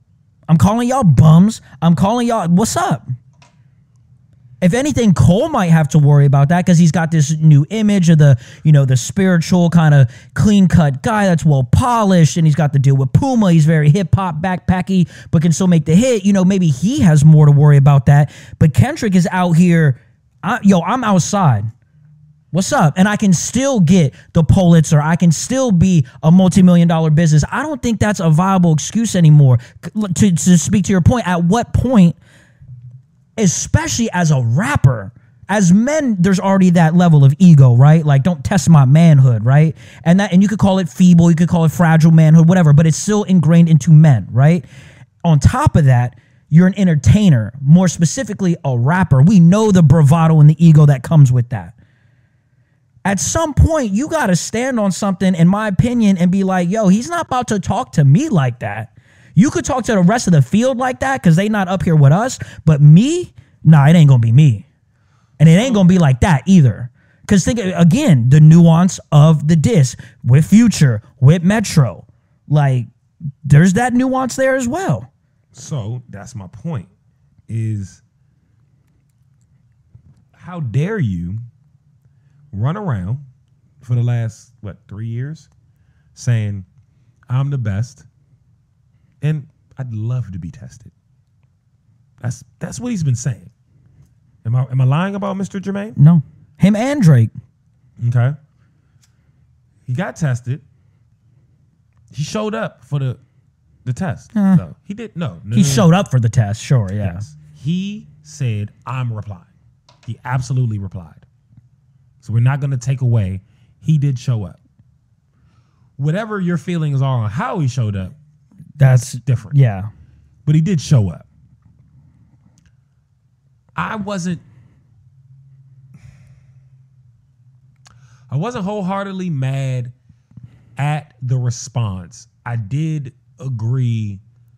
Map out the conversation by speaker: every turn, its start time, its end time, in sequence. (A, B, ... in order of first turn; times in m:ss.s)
0:00.5-0:03.0 A
0:04.6-0:21.7 A
0:22.5-0:32.2 A
0:33.4-0:44.6 A
0:45.2-0:51.7 A
0:53.0-1:04.6 A
1:05.4-1:12.9 A
1:05.5-1:06.0 B
1:13.4-1:15.1 A
1:15.5-1:16.9 B
1:17.5-1:18.0 B
1:20.3-1:21.4 B
1:22.5-1:23.2 B
1:23.8-1:25.5 B
1:26.1-1:26.6 B
1:27.3-1:28.1 B
1:29.2-1:30.9 B
1:32.2-1:33.5 B
1:34.4-1:36.0 B
1:36.0-1:37.3 A
1:38.0-1:38.4 B
1:39.9-1:40.6 B
1:42.1-1:43.2 B
1:43.8-1:45.9 B
1:44.3-1:44.6 A
1:45.5-1:47.2 A
1:47.0-1:49.5 B
1:50.0-1:51.2 B
1:52.2-1:54.6 B
1:56.0-1:58.1 B
1:58.8-1:59.9 A
1:58.9-1:59.5 B
2:00.4-2:01.2 B
2:03.8-2:04.4 B
2:08.3-2:09.9 B
2:10.8-2:14.2 B